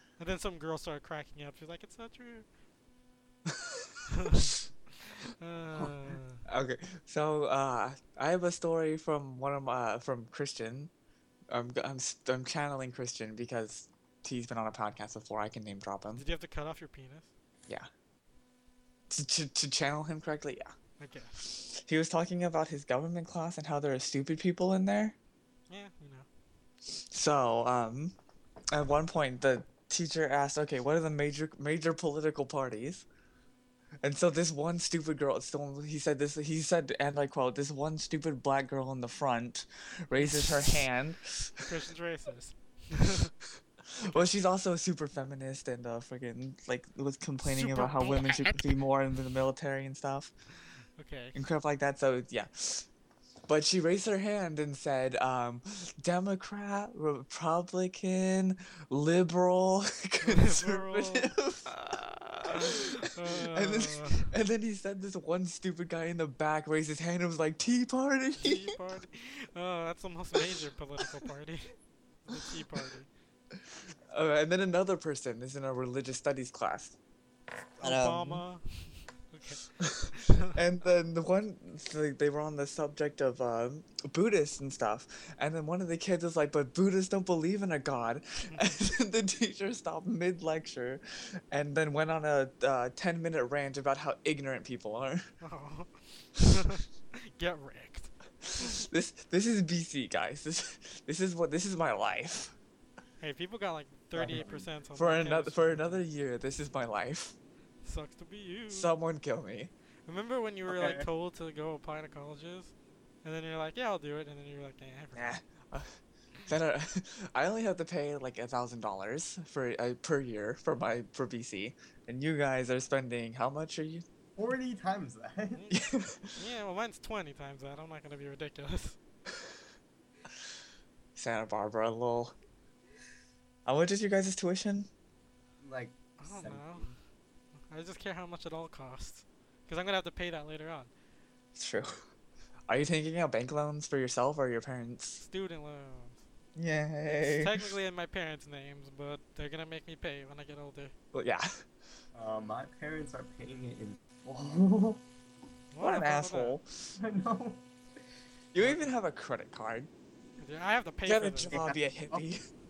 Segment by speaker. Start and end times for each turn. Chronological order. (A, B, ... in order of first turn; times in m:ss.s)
0:00.2-0:02.4 A
0:03.5-0:04.3 B
0:04.1-0:06.4 A
0:06.4-0:10.9 B
0:11.5-0:16.2 B
0:16.1-0:17.3 A
0:19.1-0:20.7 B
0:21.0-0:21.4 A
0:21.6-0:25.1 B
0:25.7-0:26.2 A
0:26.9-0:28.1 B
0:28.7-0:33.0 B
0:34.0-0:41.6 B
0:40.2-0:40.8 A
0:41.6-0:43.3 A
0:43.9-0:50.3 B
0:47.4-0:48.7 A
0:51.0-0:51.4 A
0:51.3-0:52.9 B
0:53.5-1:08.7 B
1:00.2-1:01.9 A
1:02.5-1:04.3 A
1:08.4-1:11.7 A
1:12.2-1:13.1 A
1:14.1-1:17.0 B
1:17.8-1:20.5 A
1:17.8-1:18.4 B
1:19.8-1:35.3 B
1:35.4-1:38.6 A
1:38.5-1:42.5 B
1:43.2-1:46.0 A
1:44.1-1:44.7 C
1:44.9-1:47.3 B
1:47.8-1:48.9 A
1:48.7-1:49.7 B
1:50.1-1:52.7 A
1:50.7-1:51.1 C
1:53.2-1:55.4 A
1:55.1-2:04.0 B
2:04.4-2:05.6 C
2:05.5-2:05.8 A
2:05.7-2:06.4 B
2:06.3-2:09.0 A
2:11.2-2:12.3 B
2:13.6-2:14.9 B
2:15.6-2:17.0 C
2:16.2-2:16.9 A
2:17.7-2:20.9 A
2:21.5-2:22.0 B
2:22.7-2:25.2 B
2:25.2-2:26.2 A
2:26.6-2:27.7 B
2:27.1-2:30.9 A
2:31.1-2:31.6 B
2:32.1-2:35.0 C
2:35.7-2:36.6 A
2:35.8-2:36.9 B
2:37.0-2:37.6 C
2:38.5-2:39.9 B
2:38.6-2:38.9 A
2:40.4-2:41.5 A
2:41.0-2:42.5 B
2:41.5-2:42.2 C